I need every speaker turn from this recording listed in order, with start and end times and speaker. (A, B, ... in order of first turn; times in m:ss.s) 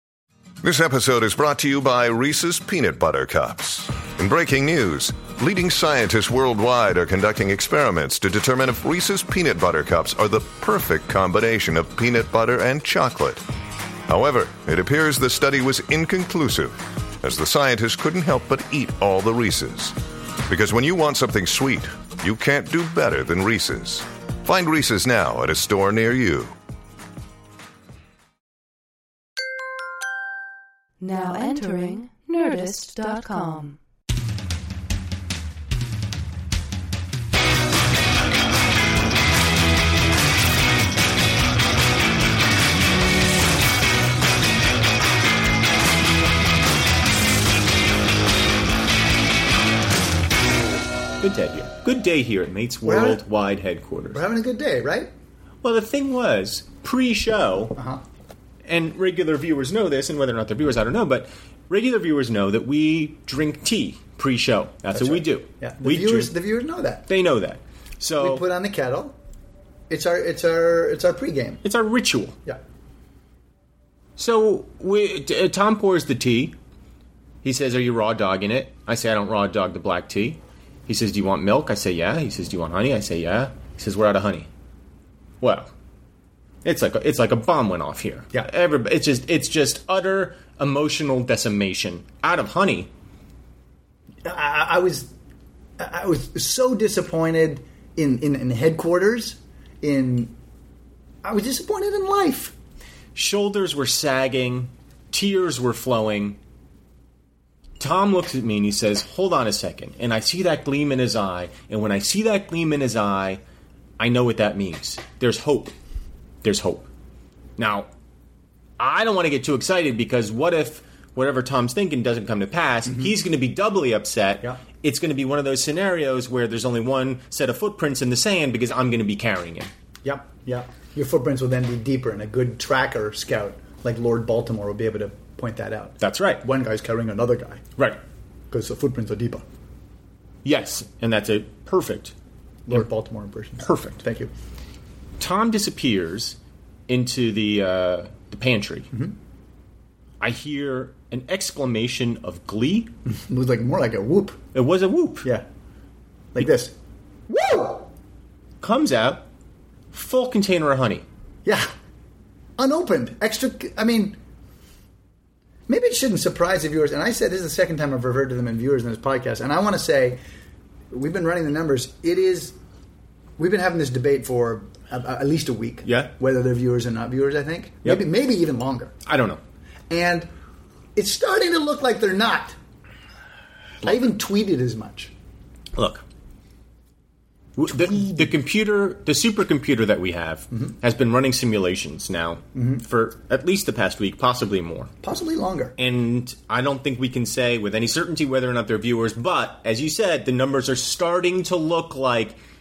0:00.6-0:13.4 A
0:14.1-0:26.5 A
0:31.0-0:33.8 B
0:51.2-0:54.2 C
0:52.8-0:53.2 D
0:54.1-0:55.1 D
0:55.6-0:57.7 C
0:57.8-0:58.0 D
0:58.6-1:06.3 C
1:04.9-1:07.0 D
1:07.1-1:08.4 C
1:08.2-1:09.1 D
1:09.9-1:11.6 D
1:11.6-1:12.4 C
1:14.2-1:16.5 C
1:17.4-1:24.5 C
1:25.4-1:25.7 C
1:26.6-1:32.9 C
1:34.2-1:35.1 D
1:35.8-1:40.3 D
1:41.2-1:42.5 D
1:43.1-1:46.4 C
1:47.8-1:53.4 C
1:54.0-1:55.7 C
1:56.4-1:56.9 C
1:57.6-1:57.9 C
1:58.8-2:09.7 C
2:02.9-2:03.1 D
2:10.0-2:17.6 D
2:16.0-2:16.4 C
2:18.5-2:19.4 D
2:20.4-2:22.1 C
2:22.7-2:24.3 D
2:23.6-2:24.0 C
2:25.2-2:26.4 C
2:26.9-2:28.9 C
2:30.2-2:32.9 C
2:33.1-2:34.4 D
2:34.5-2:35.3 C
2:36.3-2:36.7 D
2:37.3-2:37.9 D
2:38.6-2:39.2 C
2:39.9-2:41.0 C
2:41.4-2:41.7 D
2:42.6-2:44.2 D
2:45.7-2:50.2 D
2:50.9-2:52.5 D
2:53.4-2:58.9 D
2:55.8-2:56.1 C
2:59.0-2:59.4 C
2:59.9-3:00.3 D
3:00.9-3:02.5 D
3:03.8-3:05.1 D
3:05.7-3:06.0 C
3:07.6-3:14.9 C
3:07.7-3:08.3 D
3:12.5-3:12.8 D
3:15.0-3:15.7 D
3:15.8-3:22.4 C